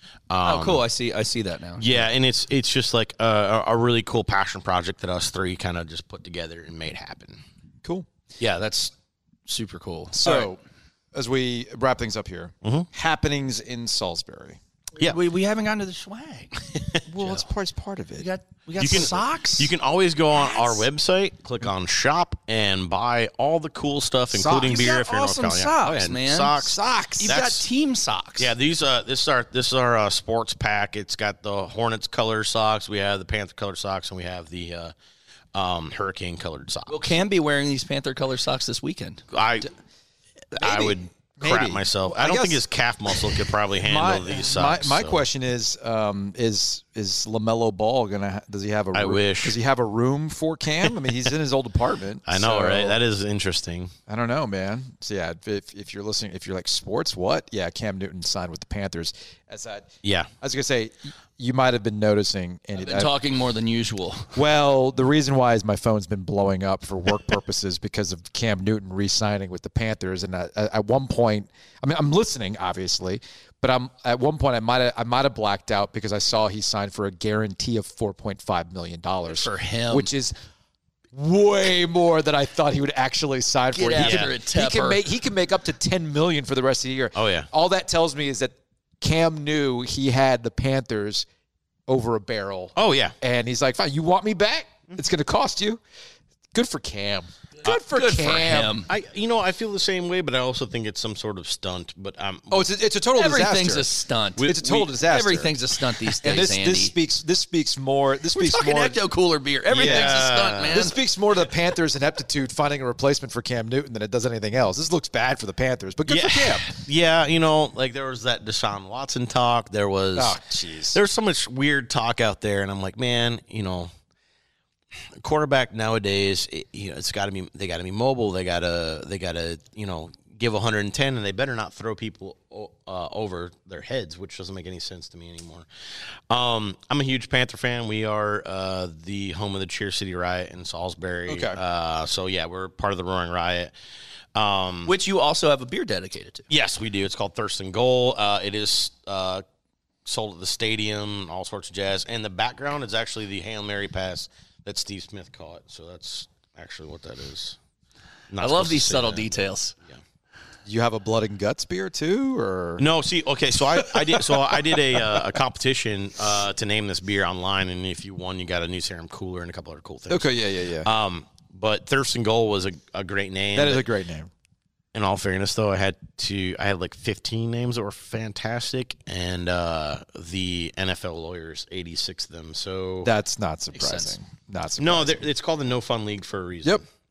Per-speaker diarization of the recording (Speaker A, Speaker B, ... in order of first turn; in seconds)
Speaker A: 0.3-0.8, 1.8-7.4, 18.8-27.6, 28.4-34.9, 35.5-37.0, 39.3-39.7, 40.6-45.2, 48.9-49.6, 52.2-53.9, 60.0-60.3, 84.0-84.3, 87.1-87.5, 92.8-93.1, 98.9-102.7, 109.7-110.8, 116.0-120.4, 120.9-123.9, 125.2-135.7, 136.3-143.7, 144.3-144.9, 146.5-149.4, 150.0-157.6, 158.3-160.0, 162.8-173.9, 174.9-183.1, 184.8-186.8
Speaker B: 0.4-2.1, 8.4-8.9, 9.4-10.5, 14.9-16.6, 18.2-19.7, 24.5-26.6, 27.2-28.5, 36.9-39.2, 62.7-64.4, 79.3-80.1, 83.7-85.0, 97.6-98.9, 103.1-106.9, 108.3-111.0, 144.8-146.4, 158.4-159.7, 183.7-184.2
Speaker C: 10.1-10.6, 11.1-14.6, 17.1-18.3, 24.3-26.0, 26.6-27.4, 40.5-42.6, 43.8-53.0, 54.1-63.1, 64.3-80.3, 81.1-91.2, 91.9-95.8, 96.5-98.8, 102.5-105.5, 106.2-109.0, 109.7-116.7, 120.2-121.0, 141.3-141.6, 160.7-162.8, 163.9-164.4, 170.1-170.9, 173.5-174.3, 183.0-185.2